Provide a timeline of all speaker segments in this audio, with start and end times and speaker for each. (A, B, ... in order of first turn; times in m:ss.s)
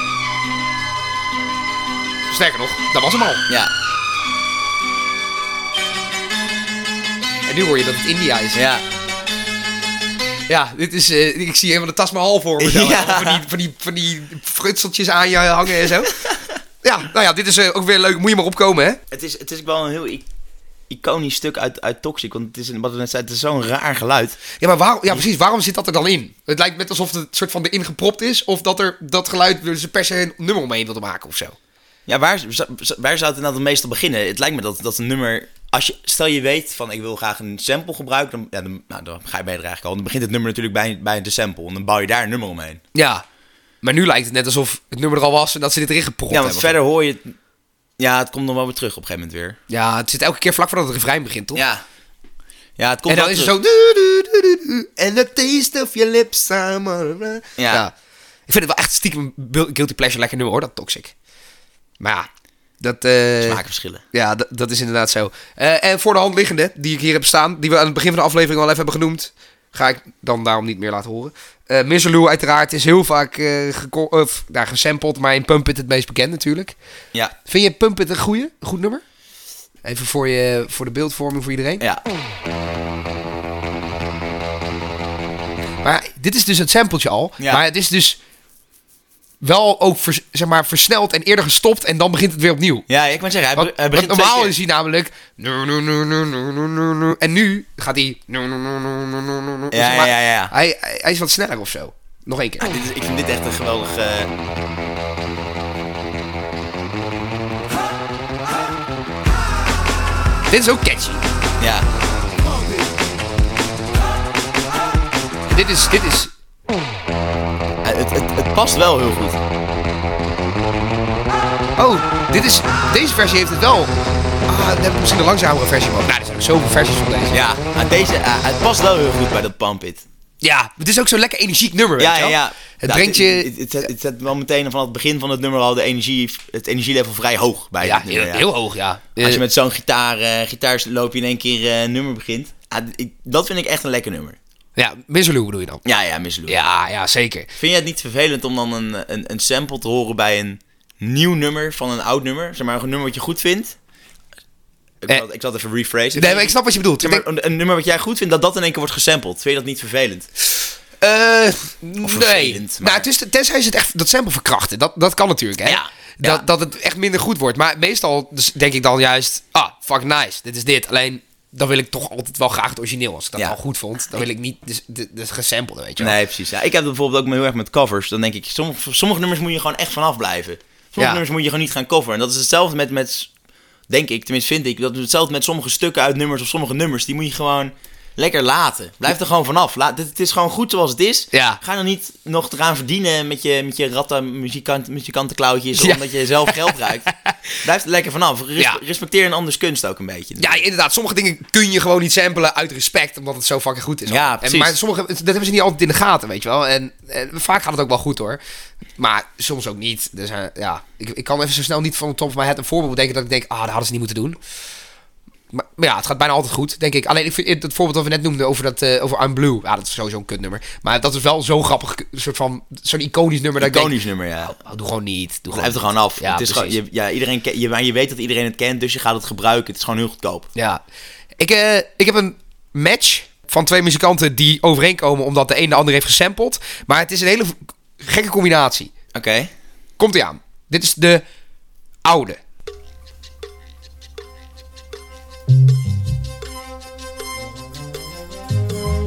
0:02.3-0:03.4 A
0:07.5-0:08.6 A
0:08.5-0:08.8 B
0:10.5-0:16.2 A
0:12.6-0:13.4 B
0:16.8-0:19.0 A
0:19.1-0:20.2 B
0:20.9-0:24.4 B
0:24.6-0:31.5 A
0:32.1-0:42.8 B
0:42.9-0:43.2 A
0:43.8-0:46.7 A
0:46.3-0:47.3 B
0:48.0-0:49.6 B
0:49.7-0:51.6 A
0:51.5-0:51.8 B
0:52.8-0:53.5 B
0:53.1-0:57.9 A
0:57.6-0:57.8 B
0:58.5-1:01.1 A
1:02.0-1:02.3 A
1:02.8-1:03.6 A
1:03.4-1:04.0 B
1:04.1-1:16.7 A
1:17.4-1:19.0 A
1:19.8-1:21.8 A
1:25.8-1:28.2 A
1:29.4-1:32.9 A
1:32.9-1:34.5 B
1:33.6-1:42.8 A
1:39.7-1:40.5 B
1:42.6-1:44.3 B
1:50.5-1:51.2 A
1:51.6-1:51.9 B
1:55.5-1:56.3 A
1:57.8-1:59.4 B
2:01.8-2:03.9 A
2:04.5-2:07.4 A
2:07.3-2:10.0 B
2:10.4-2:13.5 A
2:12.0-2:18.5 B
2:17.8-2:19.4 A
2:19.2-2:24.4 B
2:24.8-2:25.8 A
2:25.8-2:26.6 B
2:26.5-2:27.5 A
2:27.6-2:33.7 B
2:35.0-2:40.3 B
2:36.1-2:37.2 A
2:41.0-2:56.2 A
2:42.0-2:43.1 B
2:45.6-2:46.4 B
2:56.0-3:03.3 B
3:03.9-3:17.1 B
3:11.3-3:11.6 A
3:15.8-3:16.8 A
3:17.6-3:20.6 B
3:20.4-3:28.4 A
3:24.1-3:24.7 B
3:29.0-3:34.4 A
3:35.5-3:43.9 A
3:43.6-3:44.5 B
3:44.5-3:46.8 A
3:45.5-3:50.5 B
3:50.6-3:50.8 A
3:51.4-3:58.9 A
3:59.1-3:59.5 B
4:00.0-4:01.2 A
4:02.0-4:02.4 A